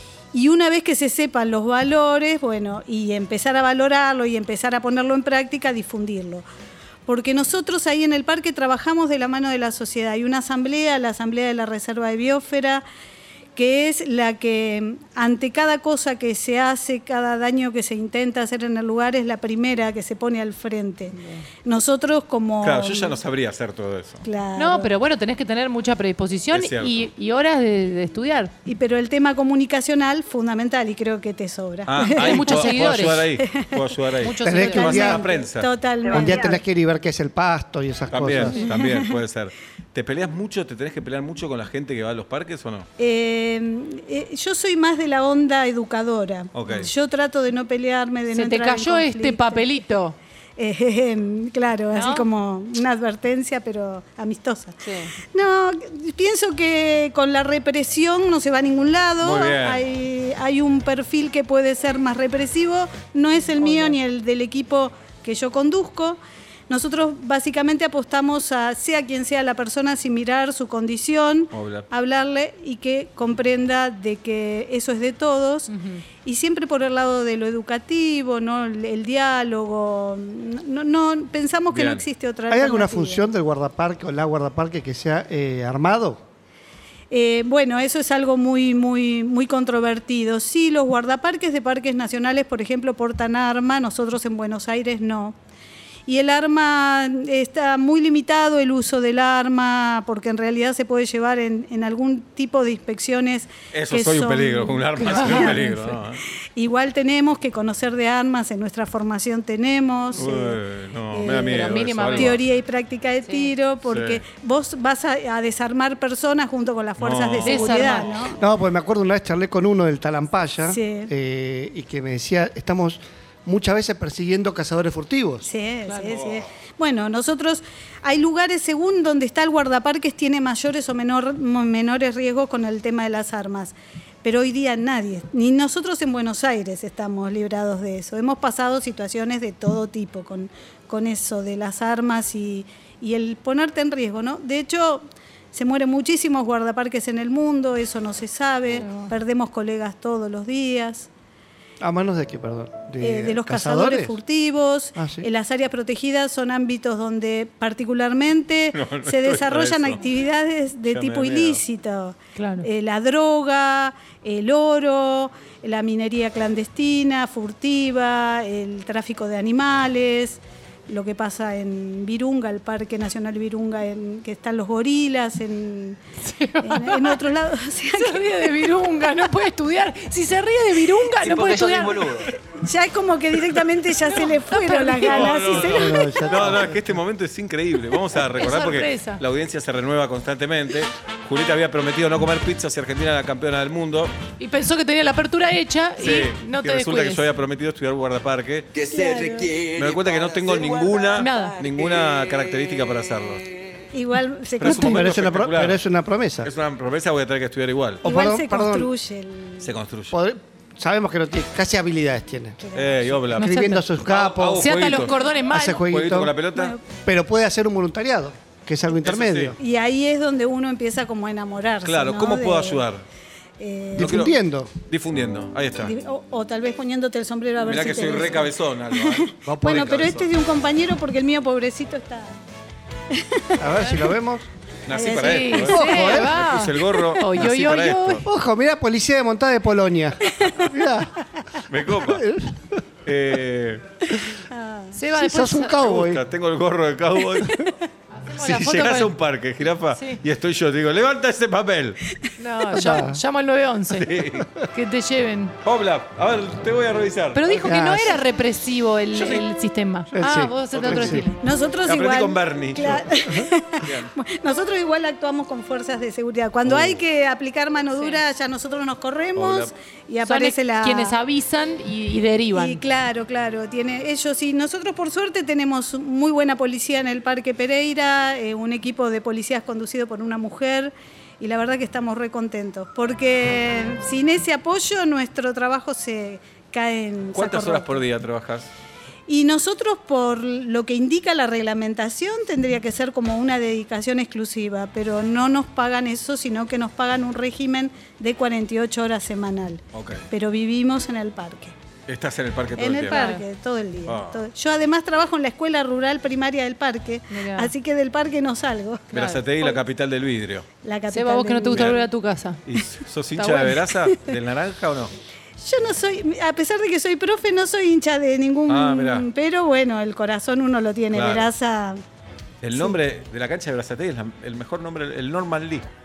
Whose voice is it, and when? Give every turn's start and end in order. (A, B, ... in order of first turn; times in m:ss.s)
0:00.3-0:06.4 A
0:07.1-0:12.8 A
0:13.6-0:23.2 A
0:21.1-0:21.4 B
0:22.6-0:24.2 C
0:24.2-0:24.9 A
0:24.6-0:28.5 B
0:26.5-0:27.1 C
0:28.7-0:32.8 A
0:31.9-0:35.7 C
0:32.0-0:33.3 B
0:33.4-0:33.8 A
0:34.2-0:35.2 B
0:34.3-0:36.6 A
0:34.4-0:35.2 D
0:36.1-0:38.6 D
0:38.1-0:42.9 C
0:38.7-0:39.1 A
0:43.0-0:49.8 A
0:46.5-0:46.9 C
0:48.3-0:50.2 B
0:50.6-1:15.7 A
0:51.9-0:52.3 B
0:54.8-0:55.1 B
0:59.2-0:59.8 C
1:03.6-1:04.0 B
1:11.5-1:11.9 C
1:15.7-1:16.0 B
1:16.2-1:23.3 A
1:21.7-1:22.0 C
1:22.5-1:26.2 D
1:27.1-1:35.4 A
1:36.1-1:45.6 A
1:43.7-1:46.2 C
1:45.0-1:46.0 B
1:46.6-1:50.6 A
1:50.2-1:52.4 C
1:51.1-1:58.4 A
1:51.3-1:52.4 B
1:53.9-1:54.2 C
1:57.0-1:58.0 C
1:57.4-1:58.1 B
1:58.4-2:05.4 D
2:00.7-2:01.1 A
2:05.4-2:31.1 A
2:05.9-2:06.1 B
2:28.8-2:29.1 B
2:31.8-2:34.2 D
2:33.0-2:56.0 A
2:35.0-2:35.3 D
2:38.7-2:40.0 C
2:40.9-2:41.6 C
2:42.4-2:42.7 B
2:56.2-2:57.2 B
2:56.6-2:58.5 A
2:57.9-3:02.1 B
3:01.2-3:02.3 E
3:02.5-3:06.5 A
3:04.0-3:05.5 B
3:05.1-3:14.1 C
3:05.7-3:06.8 D
3:08.4-3:09.2 B
3:14.4-3:17.2 B
3:16.0-3:18.7 C
3:18.7-3:22.4 E
3:18.9-3:19.5 A
3:19.8-3:23.4 C
3:21.2-3:21.6 B
3:23.9-3:25.0 A
3:24.6-3:25.8 C
3:24.6-3:26.5 D
3:26.4-3:28.0 C
3:28.0-3:28.9 D
3:28.0-3:29.7 A
3:29.6-3:30.2 C
3:30.1-3:32.6 D
3:32.6-3:33.2 A
3:32.7-3:36.8 C
3:33.3-3:34.9 D
3:33.4-3:33.8 B
3:34.6-3:35.8 B
3:35.5-3:36.4 D
3:36.5-3:36.8 A
3:37.0-3:39.6 D
3:39.0-3:39.6 C
3:39.6-3:42.8 A
3:41.8-3:43.0 C
3:43.6-3:44.2 A
3:44.0-3:44.7 D
3:44.0-3:44.3 C
3:44.9-3:46.0 C
3:45.8-3:52.4 A
3:47.6-3:50.3 C
3:49.5-3:49.9 D
3:53.1-3:54.0 A
3:53.6-3:54.5 D
3:54.9-3:58.2 C
3:54.9-3:55.9 A
3:55.0-3:58.2 B
3:55.7-3:56.4 D
3:58.2-4:01.1 D
4:00.3-4:00.6 A
4:01.7-4:02.2 C
4:01.9-4:02.8 D
4:03.1-4:03.8 C
4:04.5-4:05.0 A
4:04.9-4:05.8 B
4:05.1-4:06.2 D
4:05.8-4:07.7 C
4:07.4-4:07.8 A
4:08.2-4:09.1 B
4:08.3-4:12.0 C
4:10.0-4:10.2 B
4:12.4-4:14.1 B
4:12.7-4:13.2 D
4:13.9-4:14.5 C
4:14.7-4:15.6 B
4:15.6-4:17.5 C
4:17.3-4:21.3 B
4:17.5-4:18.2 D
4:19.2-4:19.4 C
4:20.1-4:21.3 D
4:20.7-4:21.3 C
4:21.4-4:31.2 A
4:21.9-4:23.3 C
4:23.8-4:24.1 C
4:26.7-4:27.0 C
4:29.4-4:29.7 C
4:30.2-4:32.8 B
4:32.5-4:48.0 A
4:47.4-4:48.7 C
4:49.3-5:01.8 A
4:59.9-5:00.2 C
5:02.1-5:03.3 C
5:02.8-5:09.8 A
5:03.1-5:03.4 B
5:04.1-5:04.4 C
5:07.3-5:07.7 B
5:09.1-5:09.4 B
5:09.1-5:10.7 C
5:10.8-5:12.0 A
5:11.1-5:12.6 B
5:11.7-5:12.0 C
5:12.7-5:15.1 C
5:13.4-5:13.8 B
5:15.6-5:22.0 A
5:18.7-5:19.3 C
5:21.1-5:21.5 C
5:22.6-5:25.9 C